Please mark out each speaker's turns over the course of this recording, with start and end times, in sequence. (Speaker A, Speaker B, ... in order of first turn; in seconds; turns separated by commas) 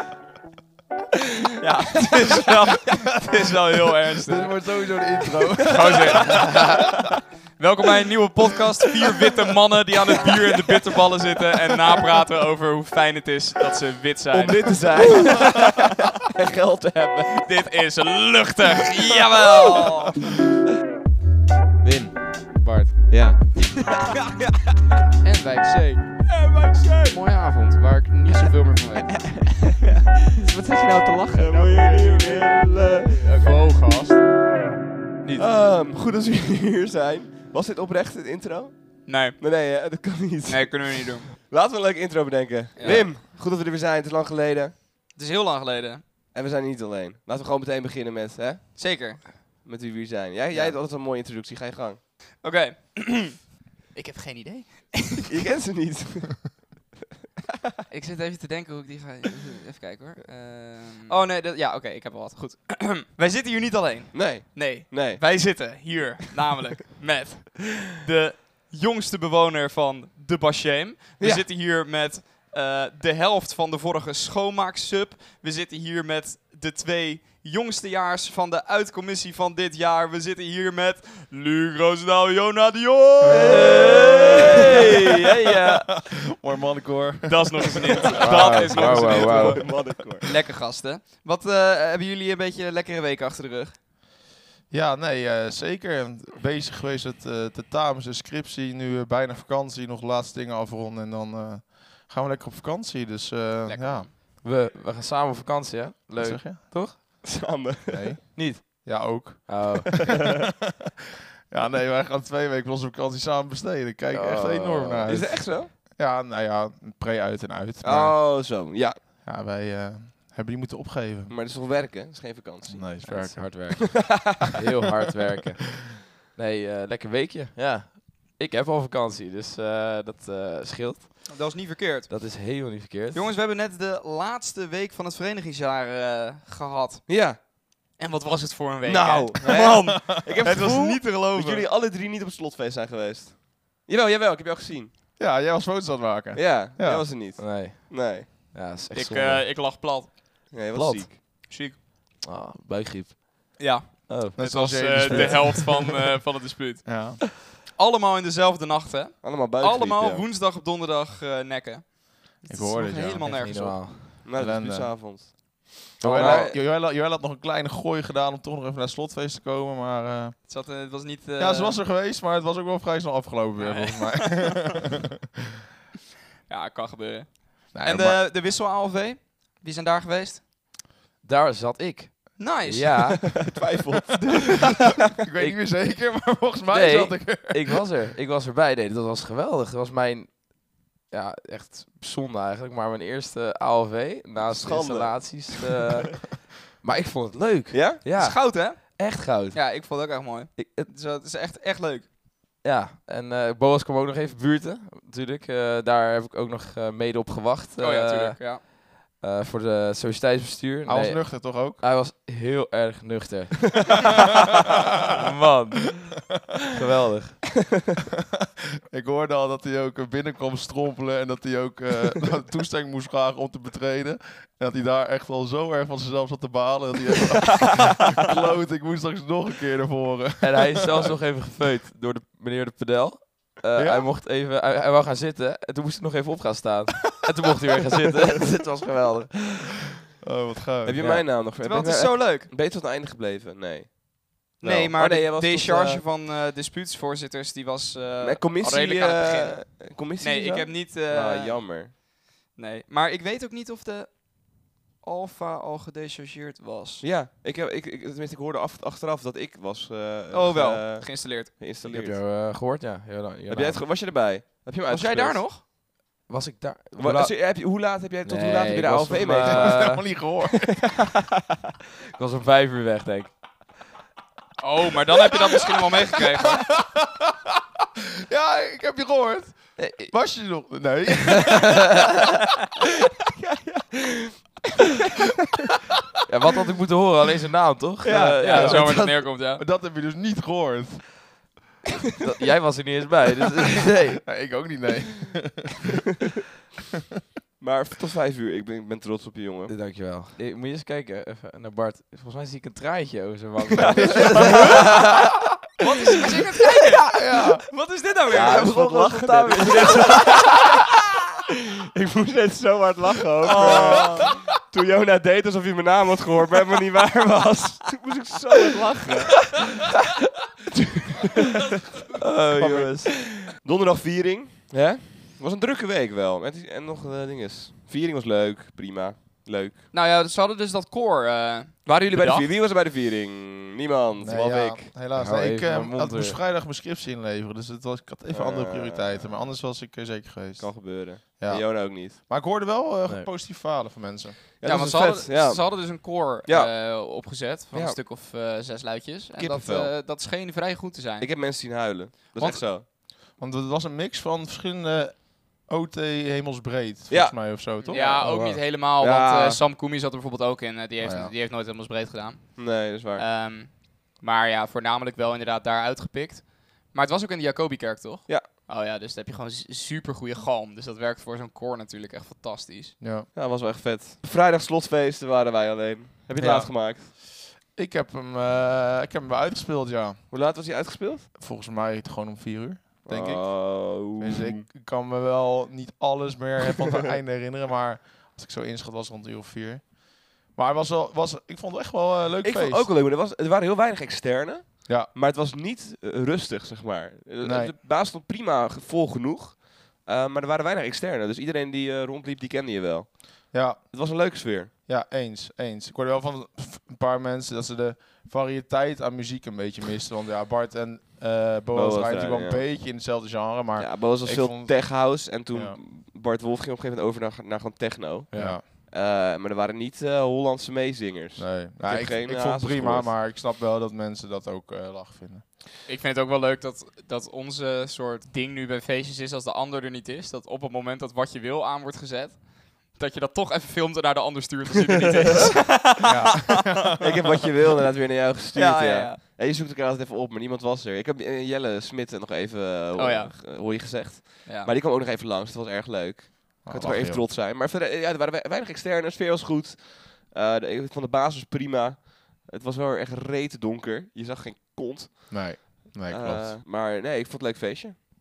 Speaker A: 1.6-4.6, Speaker B: 1.9-2.5, Speaker C: 2.9-3.5, Speaker C: 4.2-6.8, Speaker A: 5.6-6.9, Speaker B: 5.8-6.5, Speaker A: 7.6-15.6, Speaker B: 14.3-17.5, Speaker A: 17.4-20.3, Speaker B: 19.0-19.9, Speaker D: 21.8-22.2, Speaker A: 22.4-23.2, Speaker B: 23.1-24.2, Speaker A: 25.2-29.9, Speaker B: 26.4-27.2, Speaker B: 30.3-33.4, Speaker A: 30.7-34.2, Speaker B: 35.4-44.8, Speaker A: 39.1-41.3, Speaker A: 42.8-43.1, Speaker A: 45.1-46.0, Speaker B: 46.3-49.0, Speaker A: 48.8-49.3, Speaker B: 49.6-52.0, Speaker A: 52.4-55.4, Speaker B: 55.3-56.7, Speaker A: 57.9-85.9, Speaker B: 64.1-65.2, Speaker B: 71.2-71.5, Speaker C: 83.2-84.8, Speaker D: 83.3-85.8, Speaker C: 85.6-88.6, Speaker A: 87.3-93.8, Speaker D: 88.2-89.7, Speaker B: 88.3-90.3, Speaker C: 94.7-104.1, Speaker A: 103.7-104.1, Speaker D: 104.3-107.0, Speaker C: 106.2-107.0, Speaker B: 107.2-108.2, Speaker C: 107.9-109.9, Speaker D: 108.3-110.2, Speaker C: 111.5-121.3, Speaker D: 114.1-115.2, Speaker B: 115.1-115.7, Speaker B: 117.8-119.0, Speaker B: 121.3-122.9, Speaker C: 122.7-123.9, Speaker D: 123.1-133.3, Speaker A: 131.3-132.3, Speaker A: 133.1-137.1, Speaker B: 137.1-137.4, Speaker A: 138.0-141.7, Speaker B: 138.8-144.9, Speaker C: 145.2-147.1, Speaker B: 146.3-148.3, Speaker D: 147.4-149.5, Speaker A: 148.9-150.5, Speaker B: 150.5-151.2, Speaker D: 150.7-151.1, Speaker A: 151.5-151.8, Speaker D: 152.2-154.4, Speaker A: 153.6-157.1, Speaker C: 154.3-155.9, Speaker D: 154.9-155.4, Speaker C: 156.8-157.2, Speaker A: 157.8-163.8, Speaker B: 159.2-160.3, Speaker C: 162.5-163.3, Speaker D: 163.2-164.2, Speaker B: 164.2-166.6, Speaker C: 164.4-165.2, Speaker D: 166.0-166.5, Speaker C: 166.0-170.4, Speaker A: 170.5-171.8, Speaker C: 171.4-175.0, Speaker A: 173.6-174.6, Speaker A: 176.5-180.5, Speaker C: 177.7-178.2, Speaker D: 181.2-183.4, Speaker A: 182.4-183.2, Speaker B: 183.5-184.5, Speaker A: 184.3-184.7, Speaker C: 185.2-187.8, Speaker D: 185.4-186.2, Speaker D: 186.7-199.6, Speaker B: 194.4-195.6, Speaker B: 197.7-198.0, Speaker A: 198.1-202.1, Speaker D: 202.6-214.1, Speaker A: 207.8-208.6, Speaker C: 210.8-211.8, Speaker D: 215.1-217.6, Speaker C: 218.9-231.1, Speaker D: 230.4-239.8, Speaker C: 233.7-234.1, Speaker C: 240.2-241.0, Speaker B: 240.8-246.0, Speaker A: 241.6-242.5, Speaker A: 244.6-257.0, Speaker B: 248.2-251.9, Speaker B: 257.0-262.2, Speaker A: 260.3-261.6, Speaker D: 261.8-263.9, Speaker B: 263.5-265.5, Speaker A: 264.9-265.6, Speaker D: 266.3-267.6, Speaker B: 267.0-269.9, Speaker D: 268.2-270.2, Speaker C: 269.4-270.9, Speaker D: 272.1-273.8, Speaker A: 274.6-276.8, Speaker C: 275.2-277.5, Speaker C: 278.3-281.9, Speaker D: 279.8-280.3, Speaker D: 281.6-282.1, Speaker B: 283.7-283.9, Speaker D: 286.3-289.0, Speaker B: 288.0-289.1, Speaker A: 288.2-289.6, Speaker C: 288.6-291.2, Speaker D: 292.2-294.4, Speaker C: 294.3-295.9, Speaker B: 297.6-299.7, Speaker D: 299.7-305.6, Speaker B: 303.8-304.7, Speaker A: 304.5-304.7, Speaker A: 305.8-308.7, Speaker C: 307.1-307.6, Speaker D: 308.3-310.1, Speaker B: 308.3-310.5, Speaker A: 309.8-310.6, Speaker B: 311.9-319.6, Speaker A: 313.5-314.2, Speaker B: 321.1-321.6, Speaker D: 322.2-323.1, Speaker B: 322.6-322.9, Speaker B: 323.6-329.9, Speaker A: 329.9-332.5, Speaker B: 331.9-334.9, Speaker C: 334.2-344.4, Speaker D: 335.1-336.4, Speaker B: 338.3-339.5, Speaker B: 340.6-342.2, Speaker B: 344.6-346.8, Speaker A: 344.6-351.5, Speaker B: 347.7-348.0, Speaker B: 349.3-349.9, Speaker B: 351.2-352.9, Speaker A: 352.3-352.6, Speaker C: 353.4-358.2, Speaker B: 357.1-358.2, Speaker A: 357.9-373.0, Speaker D: 358.1-358.6, Speaker B: 359.0-359.6, Speaker C: 361.0-361.3, Speaker B: 362.6-363.2, Speaker C: 373.0-373.3, Speaker B: 373.3-377.1, Speaker C: 376.4-377.2, Speaker C: 377.7-380.2, Speaker B: 380.3-381.3, Speaker C: 381.4-392.9, Speaker B: 383.1-384.6, Speaker B: 392.4-404.7, Speaker C: 394.9-395.1, Speaker C: 397.4-397.8, Speaker C: 403.5-403.8, Speaker C: 404.9-415.8, Speaker B: 411.7-412.7, Speaker B: 413.8-423.1, Speaker D: 418.3-418.6, Speaker C: 418.3-418.6, Speaker C: 421.4-425.5, Speaker A: 425.9-436.7, Speaker C: 436.0-436.9, Speaker B: 437.0-458.0, Speaker A: 438.5-439.2, Speaker A: 443.0-443.5, Speaker C: 446.6-447.3, Speaker C: 455.3-456.6